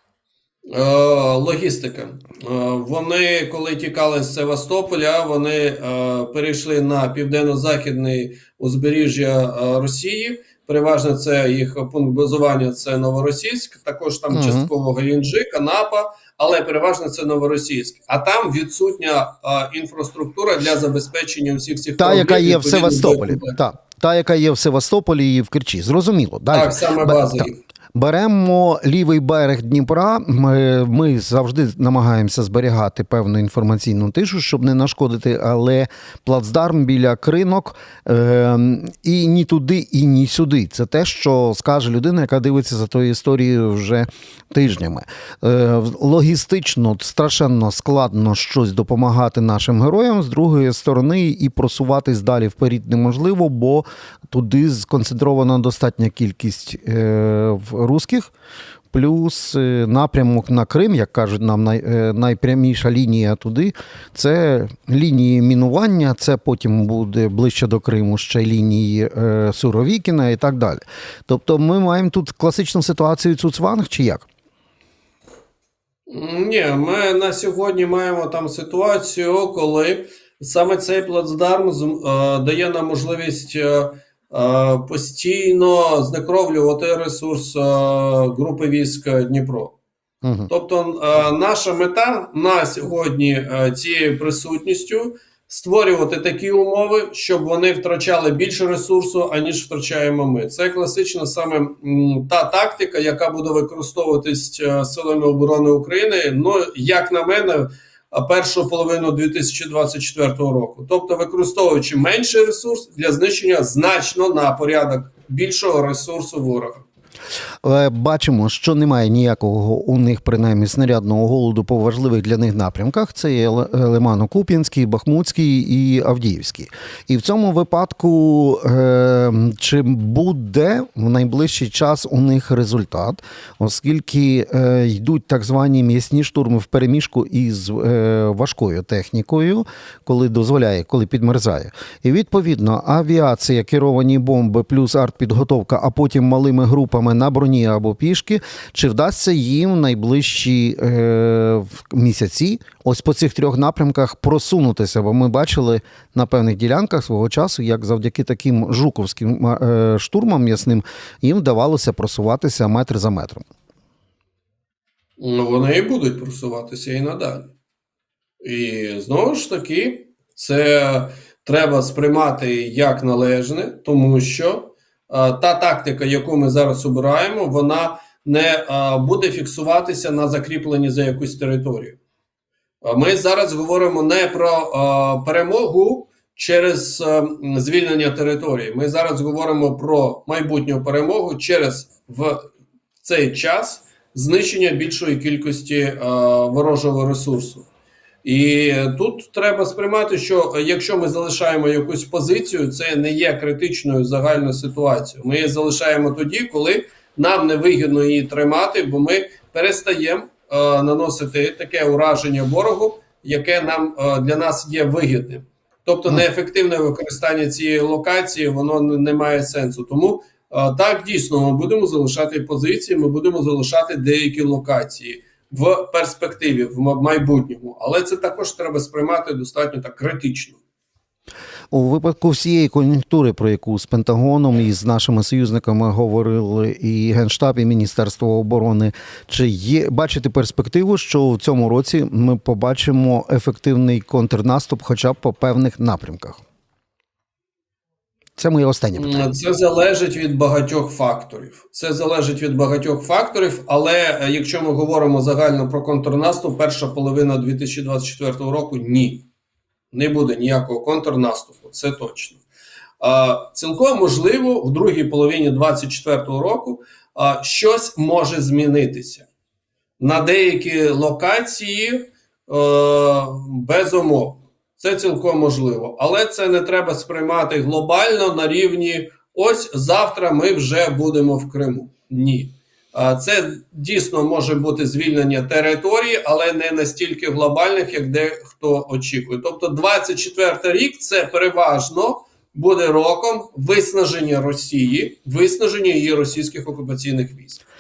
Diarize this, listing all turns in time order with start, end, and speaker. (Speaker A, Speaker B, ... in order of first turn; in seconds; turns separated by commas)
Speaker A: 0.7-23.6, Speaker B: 14.3-14.7, Speaker B: 22.0-58.3, Speaker A: 26.5-27.6, Speaker B: 58.9-74.3, Speaker A: 76.1-89.8, Speaker B: 90.2-90.5, Speaker A: 90.5-116.8, Speaker B: 117.6-163.4, Speaker A: 165.2-167.5, Speaker A: 168.4-182.0, Speaker A: 182.8-192.4, Speaker A: 193.0-197.7, Speaker A: 198.2-230.6, Speaker B: 231.7-246.4, Speaker B: 248.4-249.3, Speaker A: 248.9-259.3, Speaker A: 259.9-262.4, Speaker A: 263.0-269.3, Speaker A: 270.0-297.6